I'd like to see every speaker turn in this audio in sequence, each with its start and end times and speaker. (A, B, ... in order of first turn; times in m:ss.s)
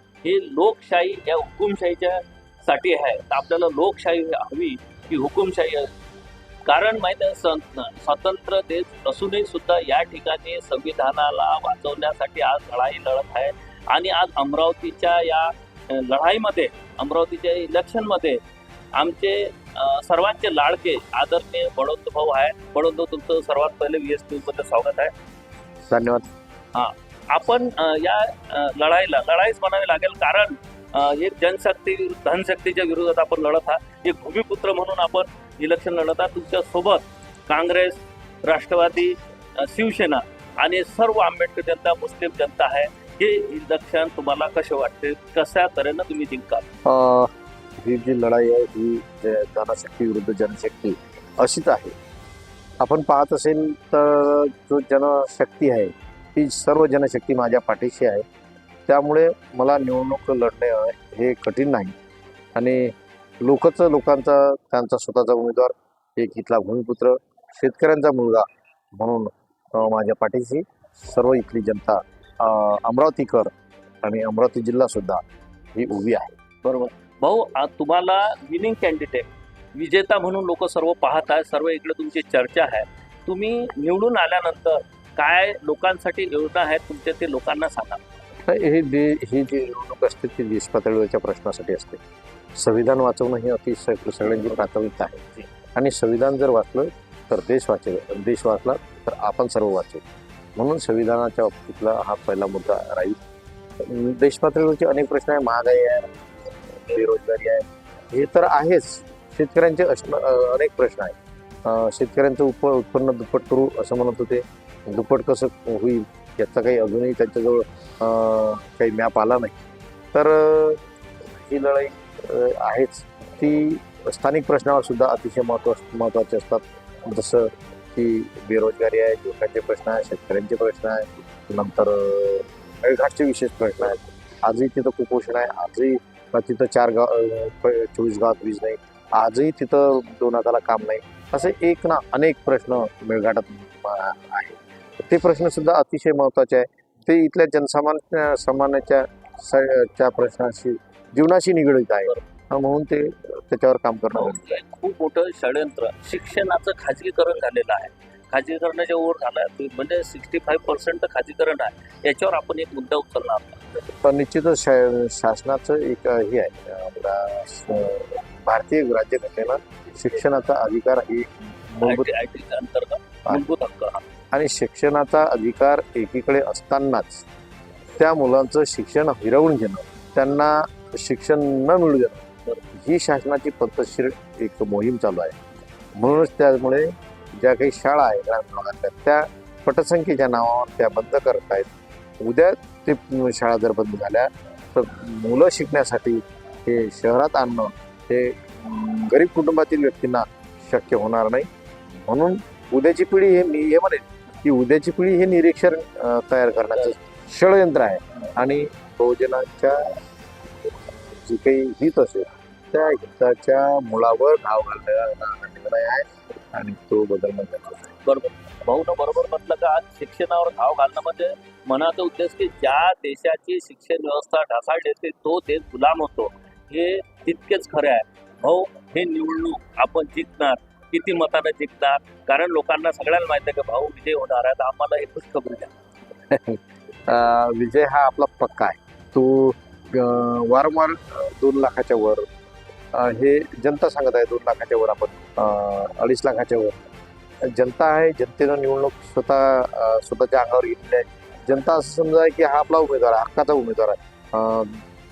0:00.2-0:05.9 A
0:06.6-0:18.4 A
0:19.0-0:25.1 A
0:25.9-0:26.3 B
0:26.7-0:46.6 A
0:46.8-0:51.9 B
0:52.8-0:58.2 B
0:58.9-1:01.9 B
1:02.6-1:15.2 B
1:15.7-1:16.3 B
1:16.6-1:28.0 A
1:28.4-1:32.0 B
1:32.6-1:40.0 B
1:40.6-1:43.2 B
1:43.8-1:59.6 B
2:00.1-2:34.4 B
2:34.1-2:43.6 A
2:44.0-2:52.1 B
2:51.8-2:54.0 A
2:54.3-2:57.3 B
2:58.0-3:05.4 B
3:06.0-3:29.8 B
3:30.7-3:37.9 B
3:38.0-3:55.7 A
3:56.3-4:02.3 B
4:02.9-4:06.9 B
4:07.4-4:14.8 B